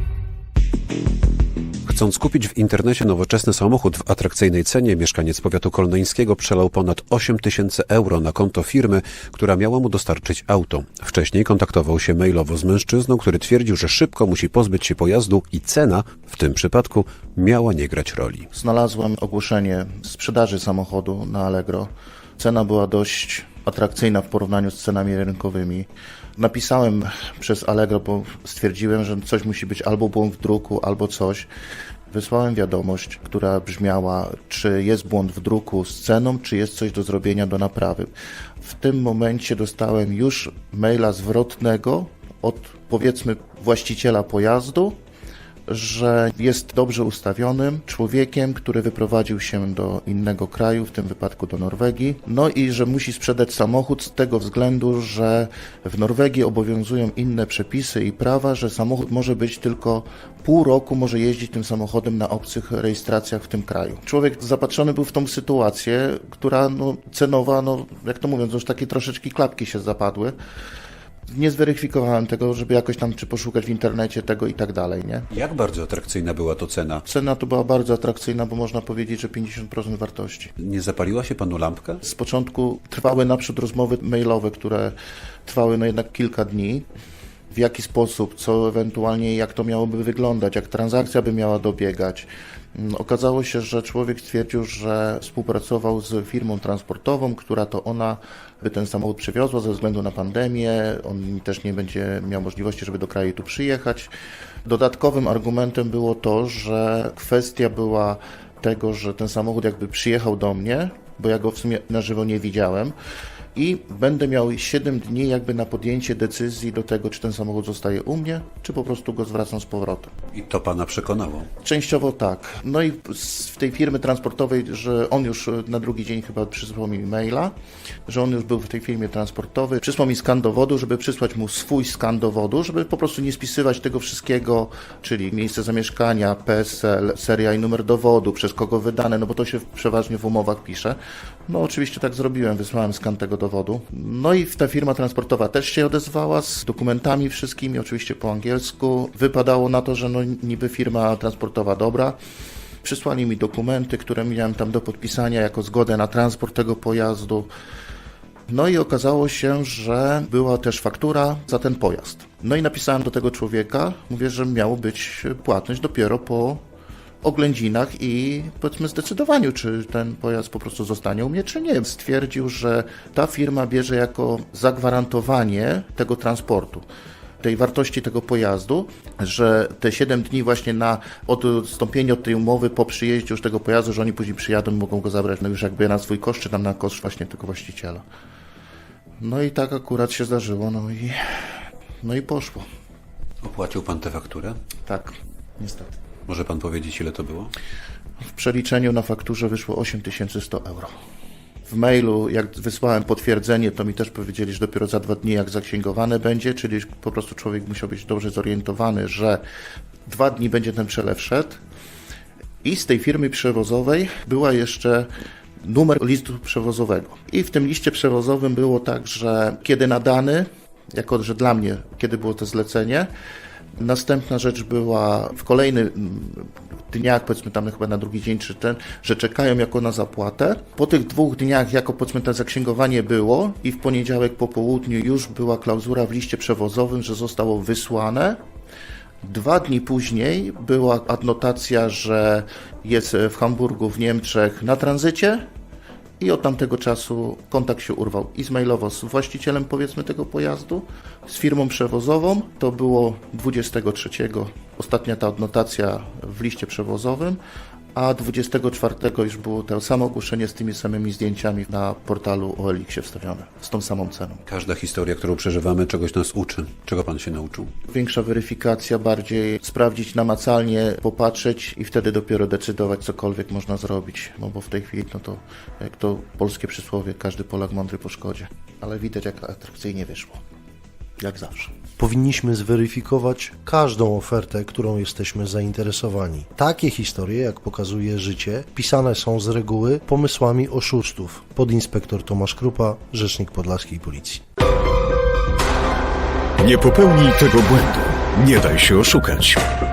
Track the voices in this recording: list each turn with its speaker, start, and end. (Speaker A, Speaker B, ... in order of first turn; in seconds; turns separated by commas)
Speaker A: 1.9-18.5, Speaker B: 18.5-31.5, Speaker B: 32.1-38.1, Speaker B: 38.6-45.0, Speaker B: 45.7-70.3, Speaker B: 71.3-75.3, Speaker A: 75.3-77.0, Speaker B: 77.0-80.5, Speaker A: 80.6-82.0, Speaker B: 82.0-86.9, Speaker B: 87.5-104.1, Speaker B: 104.6-112.9, Speaker B: 113.5-120.1, Speaker A: 120.3-121.5, Speaker B: 121.6-127.5, Speaker B: 128.1-152.2, Speaker B: 152.8-157.5, Speaker B: 158.5-166.6, Speaker B: 167.2-176.8, Speaker B: 177.4-188.0, Speaker B: 189.2-191.3, Speaker B: 192.0-192.7, Speaker A: 193.4-194.6, Speaker B: 194.8-195.9, Speaker A: 196.3-197.5, Speaker B: 198.3-200.9, Speaker B: 201.7-209.4, Speaker B: 210.1-211.6, Speaker B: 212.6-215.1, Speaker B: 215.6-223.1, Speaker B: 223.8-238.4, Speaker B: 239.2-245.4, Speaker B: 246.2-257.4, Speaker B: 257.9-264.4, Speaker A: 264.5-267.7, Speaker B: 267.9-280.4, Speaker B: 281.2-281.7, Speaker C: 282.0-294.4, Speaker D: 296.6-299.6